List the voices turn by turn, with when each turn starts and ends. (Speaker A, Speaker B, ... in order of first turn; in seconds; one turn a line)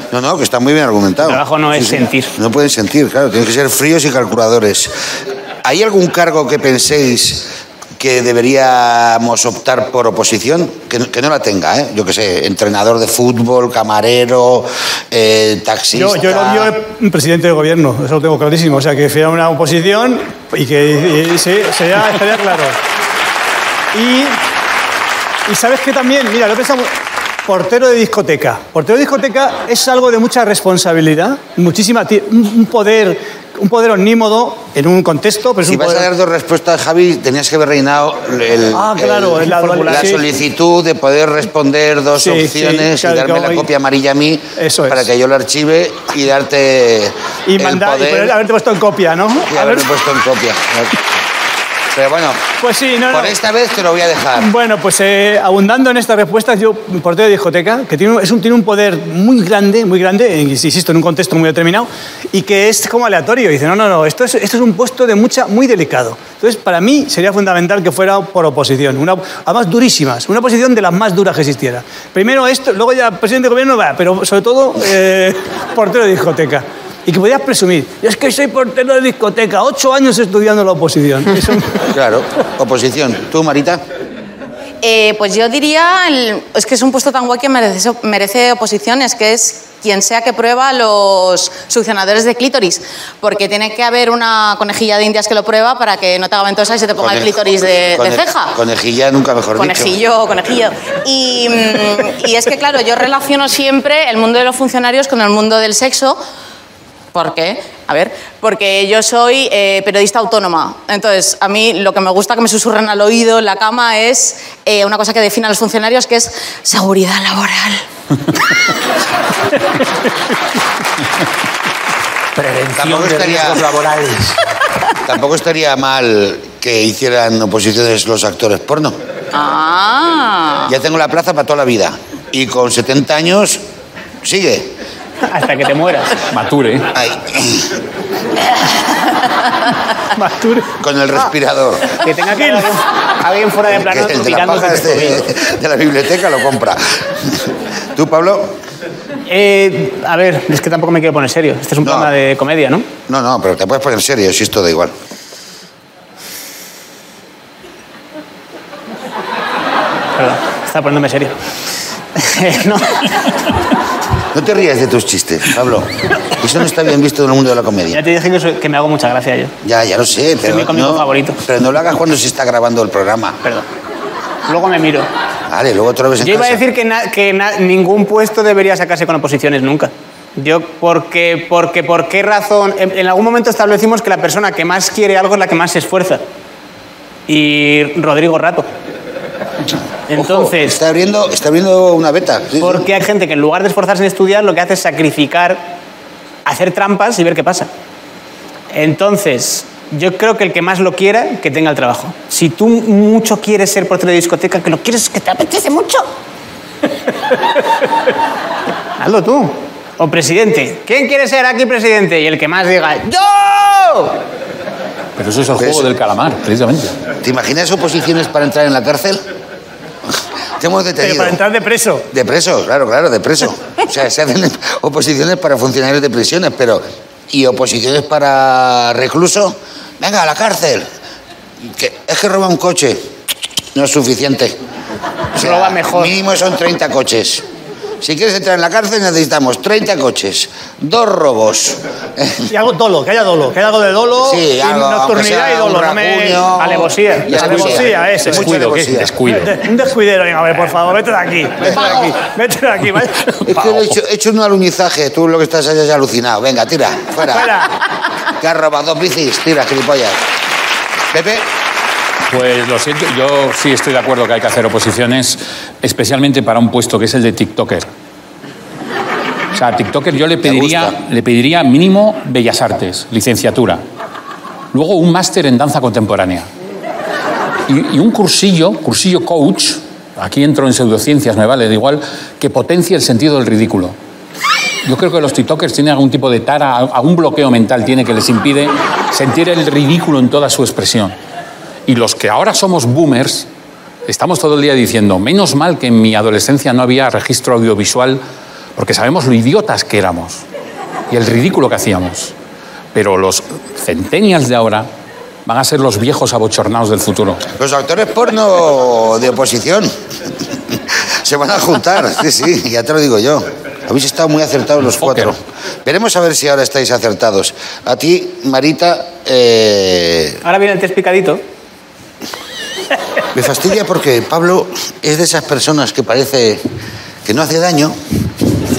Speaker A: 0.1-4.9
Speaker B: 1.2-2.3
Speaker A: 5.6-16.7
Speaker C: 15.9-22.8
Speaker C: 23.9-24.4
Speaker C: 25.5-26.9
Speaker C: 27.4-36.1
Speaker A: 35.6-48.4
Speaker C: 38.7-40.2
Speaker B: 39.5-40.1
Speaker C: 42.2-43.7
Speaker C: 44.6-45.0
Speaker C: 47.5-49.9
Speaker A: 49.5-51.0
Speaker A: 51.9-52.4
Speaker C: 52.6-53.4
Speaker A: 53.1-54.5
Speaker C: 54.4-81.8
Speaker A: 81.9-83.8
Speaker D: 84.8-98.5
Speaker A: 97.0-100.0
Speaker D: 99.5-106.2
Speaker D: 107.1-117.8
Speaker E: 122.4-124.4
Speaker A: 122.8-123.8
Speaker A: 125.0-128.9
Speaker D: 129.3-130.7
Speaker A: 130.7-133.6
Speaker A: 134.2-134.7
Speaker B: 135.2-136.2
Speaker E: 136.3-136.9
Speaker A: 136.9-137.8
Speaker D: 138.9-139.5
Speaker C: 140.1-140.7
Speaker A: 140.8-142.0
Speaker B: 142.0-145.3
Speaker A: 143.7-148.6
Speaker B: 149.3-152.9
Speaker A: 151.8-152.1
Speaker A: 153.1-154.9
Speaker B: 160.2-161.3
Speaker B: 162.1-163.4
Speaker A: 164.3-168.0
Speaker B: 167.9-169.5
Speaker A: 169.6-173.4
Speaker B: 170.4-171.4
Speaker B: 174.4-175.1
Speaker A: 175.5-176.6
Speaker B: 176.2-186.2
Speaker B: 187.3-188.7
Speaker B: 190.1-190.7
Speaker A: 190.1-192.9
Speaker B: 192.6-195.7
Speaker B: 196.4-197.7
Speaker B: 198.7-206.1
Speaker B: 209.0-214.2
Speaker E: 215.2-216.9
Speaker A: 215.6-215.9
Speaker A: 217.2-219.2
Speaker A: 220.6-221.4
Speaker C: 221.0-222.1
Speaker A: 222.1-230.8
Speaker A: 231.6-233.0
Speaker A: 233.7-234.6
Speaker B: 235.3-236.1
Speaker A: 235.3-237.4
Speaker A: 238.0-242.5
Speaker C: 242.5-246.4
Speaker A: 244.2-249.1
Speaker B: 246.4-247.8
Speaker C: 247.3-248.4
Speaker E: 248.3-249.6
Speaker C: 249.5-253.5
Speaker A: 251.6-252.1
Speaker A: 253.5-257.6
Speaker E: 253.5-253.9
Speaker C: 257.3-257.7
Speaker A: 258.4-260.2
Speaker A: 261.1-261.5
Speaker E: 262.3-267.9
Speaker E: 269.5-273.8
Speaker A: 270.4-270.9
Speaker E: 274.7-276.5
Speaker E: 277.7-283.9
Speaker E: 284.8-291.1
Speaker E: 291.9-293.5
Speaker E: 294.1-298.2
Speaker E: 298.8-300.4
Speaker E: 301.1-302.3
Speaker E: 302.9-304.9
Speaker E: 305.4-307.4
Speaker A: 307.6-309.9
Speaker A: 310.7-320.4
Speaker E: 314.8-315.3
Speaker B: 320.4-321.4
Speaker A: 323.3-326.6
Speaker A: 327.2-327.9